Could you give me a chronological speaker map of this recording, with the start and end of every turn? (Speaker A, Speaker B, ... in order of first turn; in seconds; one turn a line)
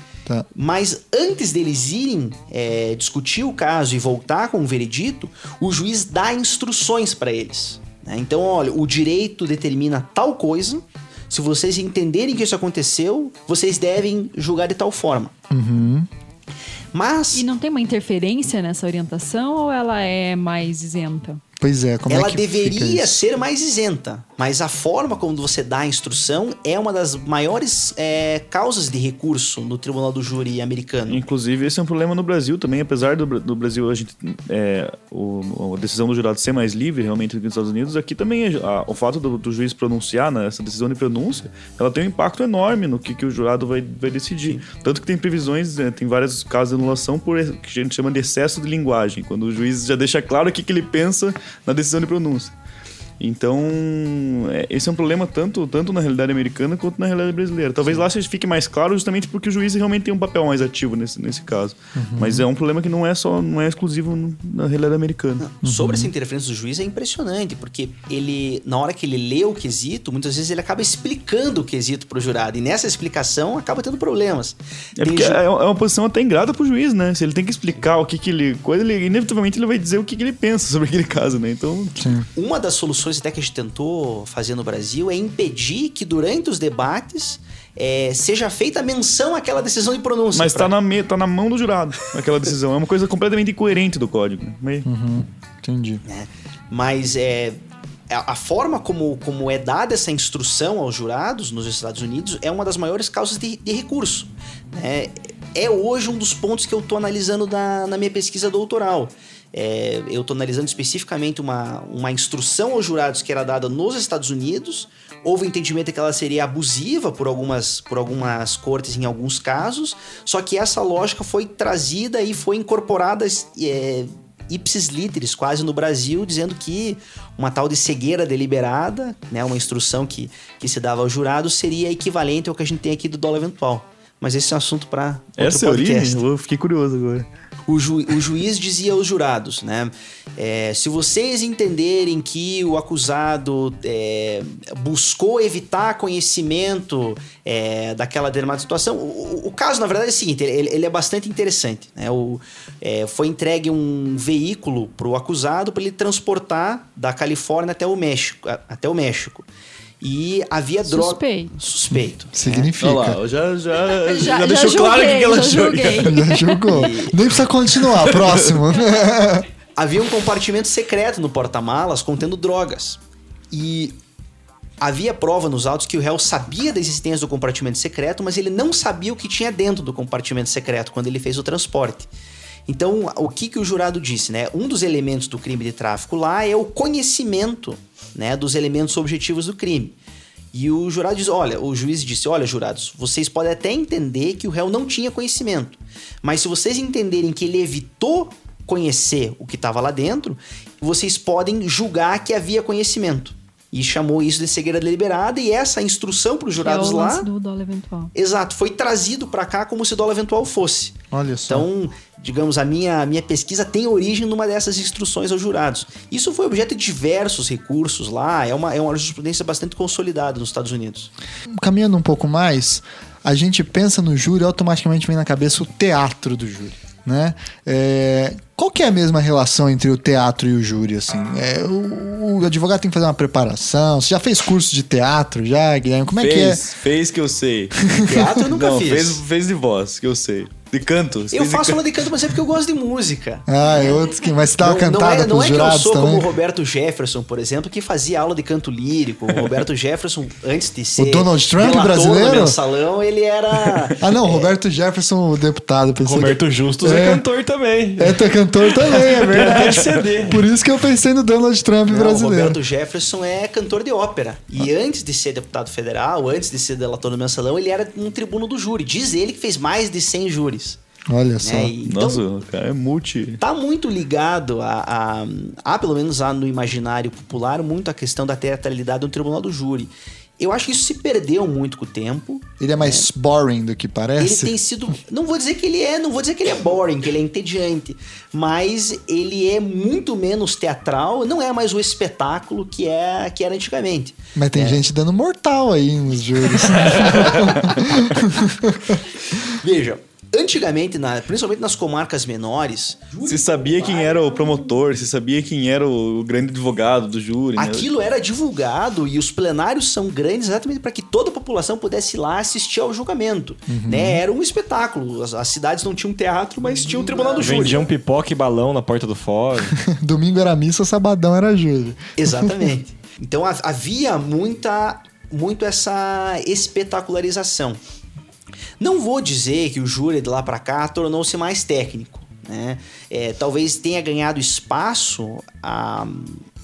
Speaker A: 0.5-15.3
Speaker B: 15.5-16.1
Speaker A: 16.9-17.4
Speaker C: 17.3-21.4
Speaker B: 21.6-23.2
Speaker A: 22.1-31.2
Speaker D: 31.1-52.5
Speaker D: 53.2-65.4
Speaker B: 62.0-62.5
Speaker A: 65.4-75.4
Speaker B: 65.6-66.1
Speaker D: 75.0-82.0
Speaker B: 82.0-82.3
Speaker A: 82.3-90.7
Speaker D: 90.3-94.9
Speaker B: 94.8-96.0
Speaker A: 96.0-97.6
Speaker A: 98.1-136.2
Speaker D: 135.4-137.3
Speaker A: 137.7-159.4
Speaker A: 160.0-162.7
Speaker C: 160.9-161.5
Speaker B: 161.9-163.2
Speaker D: 162.8-166.2
Speaker C: 163.9-166.9
Speaker B: 166.0-169.4
Speaker A: 166.7-167.2
Speaker D: 167.8-168.6
Speaker A: 169.8-173.0
Speaker A: 173.5-173.9
Speaker A: 174.8-182.1
Speaker A: 182.7-190.0
Speaker A: 190.5-207.3
Speaker C: 206.6-208.1
Speaker A: 208.1-210.9
Speaker B: 211.1-211.7
Speaker A: 211.5-221.1
Speaker B: 221.4-236.6
Speaker D: 236.2-237.8
Speaker B: 237.8-238.4
Speaker A: 238.0-239.2
Speaker D: 238.5-241.9
Speaker A: 241.3-243.9
Speaker B: 243.5-246.3
Speaker A: 244.6-254.5
Speaker B: 251.0-252.6
Speaker B: 254.0-257.2
Speaker E: 256.0-260.4
Speaker B: 258.0-262.6
Speaker D: 259.5-259.9
Speaker A: 261.9-270.8
Speaker B: 271.1-271.7
Speaker A: 271.4-272.2
Speaker D: 271.8-273.4
Speaker A: 273.4-283.1
Speaker B: 282.6-284.5
Speaker A: 284.2-294.8
Speaker B: 294.4-299.0
Speaker D: 296.8-297.8
Speaker A: 299.4-304.7
Speaker D: 303.2-307.9
Speaker A: 307.6-317.9
Speaker B: 313.7-314.2
Speaker B: 316.7-317.6
Speaker E: 317.4-319.8
Speaker B: 319.7-322.7
Speaker A: 322.2-327.8
Speaker A: 328.8-336.4